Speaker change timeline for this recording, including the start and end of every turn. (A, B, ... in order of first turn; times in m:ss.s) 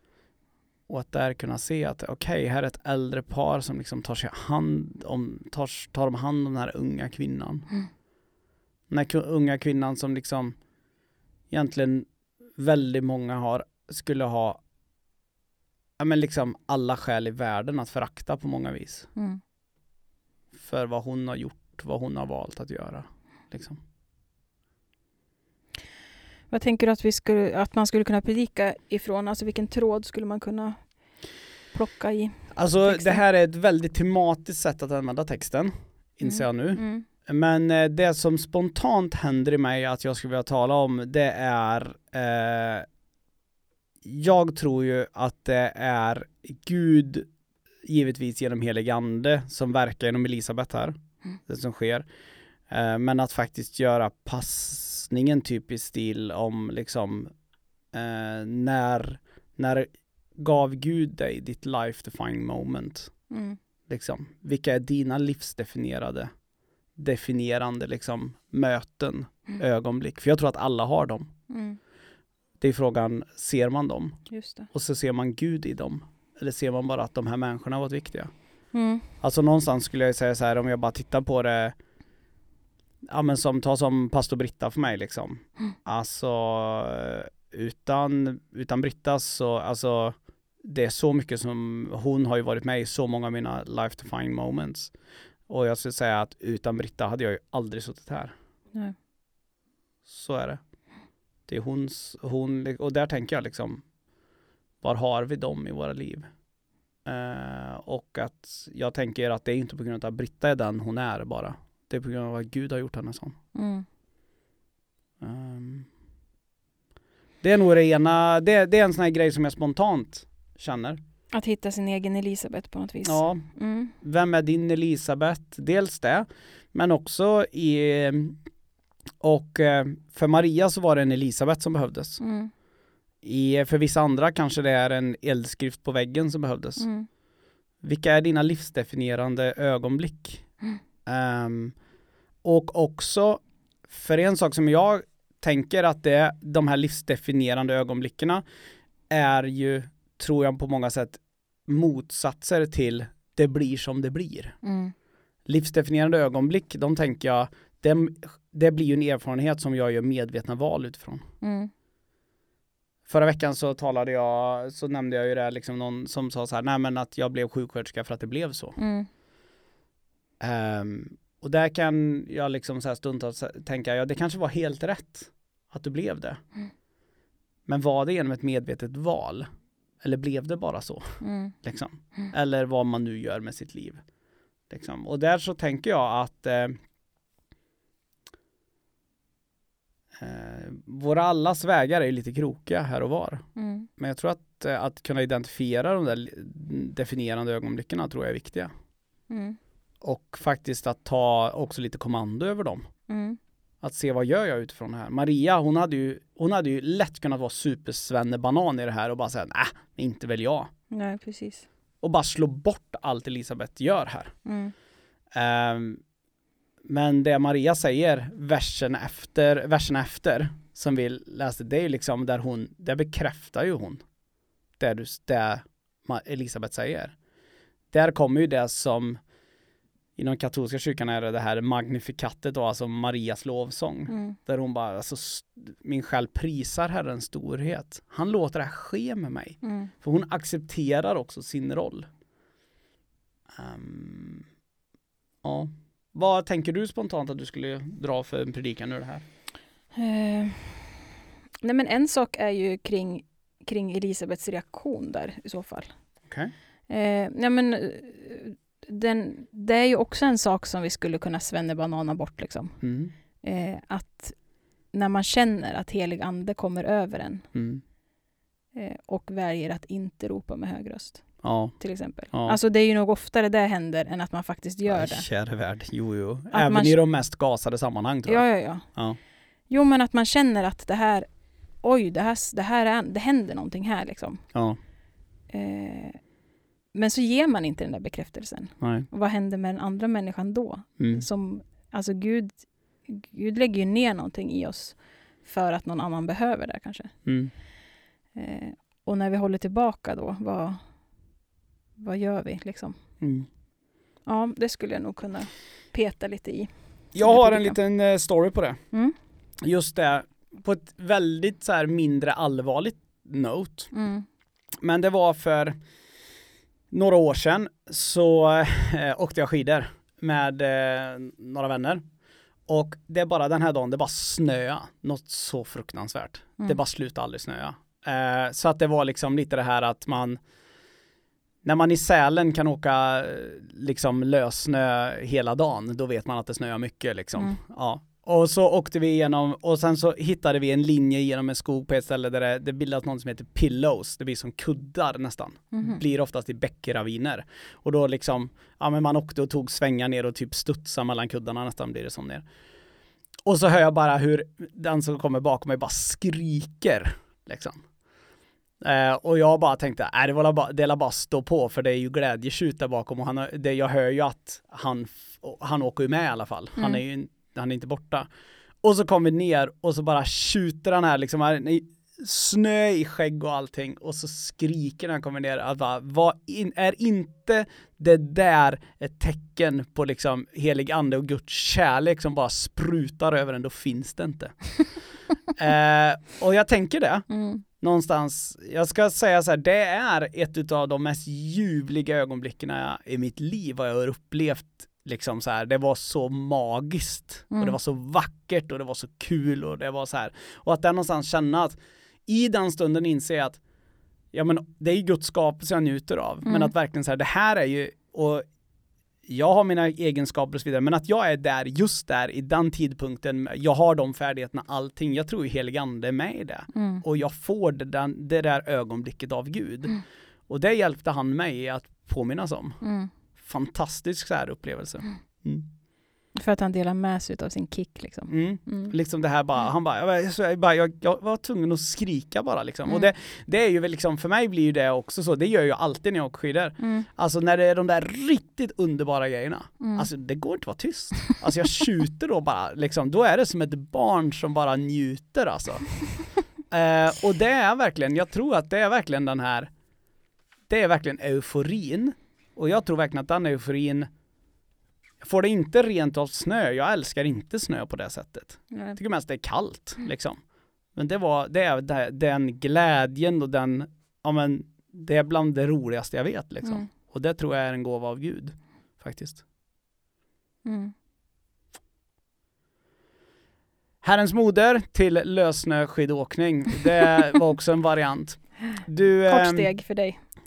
0:00.9-0:07.7 A
0:08.9-0:10.6 A
0:11.5-0:14.6 A
0:16.0-0:19.1 A
0:20.6-0:23.8 A
0:26.5-0:30.8 B
0:31.7-0:33.2 B
0:32.5-0:42.8 A
0:36.2-0:37.0 B
0:44.0-0:47.3 A
0:47.8-0:50.9 A
0:51.5-0:52.0 A
0:52.7-0:57.3 A
0:57.9-1:03.1 A
1:03.3-1:03.6 B
1:03.9-1:06.3 A
1:07.0-1:11.3 A
1:11.5-1:11.8 B
1:12.6-1:14.2 A
1:14.3-1:14.7 B
1:14.7-1:18.3 A
1:18.7-1:19.0 B
1:19.2-1:21.7 A
1:23.1-1:34.9 A
1:35.5-1:38.3 A
1:40.1-1:40.6 A
1:41.5-1:43.8 A
1:44.8-1:46.3 A
1:47.0-1:53.4 A
1:53.5-1:53.8 B
1:55.2-1:55.9 A
1:57.4-2:01.0 A
2:01.3-2:03.9 B
2:03.0-2:03.4 A
2:04.0-2:08.4 A
2:09.2-2:12.2 A
2:12.2-2:12.5 B
2:13.2-2:16.8 A
2:16.8-2:17.1 B
2:17.8-2:20.4 A
2:21.0-2:21.7 A
2:22.4-2:28.4 A
2:29.1-2:34.6 A
2:34.6-2:34.9 B
2:35.4-2:41.2 A
2:41.4-2:41.7 B
2:43.1-2:48.8 A
2:48.8-2:49.1 B
2:50.4-2:56.4 A
2:57.7-2:59.5 A
3:00.0-3:04.0 A
3:01.2-3:01.5 B
3:04.7-3:06.8 A
3:10.2-3:13.4 A
3:13.6-3:13.9 B
3:14.0-3:18.7 A
3:19.3-3:19.6 B
3:20.0-3:22.9 A
3:23.1-3:23.4 B
3:23.8-3:30.7 A
3:30.9-3:31.6 B
3:32.0-3:34.3 A
3:34.4-3:34.7 B
3:35.3-3:36.0 A
3:36.8-3:44.0 A
3:44.8-3:47.1 A
3:47.9-3:49.2 A
3:50.2-4:02.1 A
3:54.1-3:54.4 B
3:59.6-3:59.9 B
4:03.5-4:04.4 A
4:05.4-4:09.2 A
4:09.9-4:11.0 B
4:11.6-4:15.9 B
4:16.3-4:16.5 A
4:16.9-4:22.8 B
4:22.8-4:23.1 A
4:23.4-4:24.4 B
4:24.9-4:27.5 B
4:27.5-4:27.8 A
4:28.7-4:31.2 B
4:31.4-4:31.8 A
4:31.8-4:35.2 B
4:32.3-4:32.6 A
4:34.8-4:39.2 A
4:36.5-4:37.0 B
4:38.3-4:38.8 B
4:39.7-4:41.3 B
4:41.8-4:44.4 B
4:45.5-4:46.2 B
4:46.9-4:57.1 B
4:48.8-4:49.1 A
4:51.0-4:51.2 A
4:57.2-4:57.5 A
4:58.3-5:00.8 B
5:02.0-5:03.0 B
5:03.2-5:03.5 A
5:04.2-5:07.8 B
5:07.1-5:08.8 A
5:09.6-5:13.9 A
5:13.9-5:14.2 B
5:14.8-5:15.8 A
5:16.9-5:22.0 A
5:22.7-5:30.4 A
5:31.6-5:52.4 A
5:45.7-5:46.0 B
5:53.4-5:57.8 A
5:58.8-6:08.3 A
6:06.8-6:07.0 B
6:08.8-6:24.7 A
6:25.6-6:27.3 A
6:27.3-6:27.6 B
6:27.8-6:41.8 A
6:37.5-6:37.8 B
6:42.3-6:43.6 A
6:44.3-6:48.4 A
6:46.4-6:46.7 B
6:49.3-7:00.0 A
6:56.7-6:57.0 B
7:00.5-7:02.8 A
7:02.8-7:03.1 B
7:03.4-7:05.7 A
7:06.4-7:08.9 B
7:08.3-7:25.9 A
7:16.8-7:17.1 B
7:19.8-7:20.1 B
7:26.7-7:29.7 A
7:30.7-7:34.1 A
7:35.2-7:40.4 A
7:38.7-7:39.0 B
7:40.9-7:49.4 A
7:50.6-7:50.9 B
7:54.0-7:59.7 A
7:59.2-8:00.2 B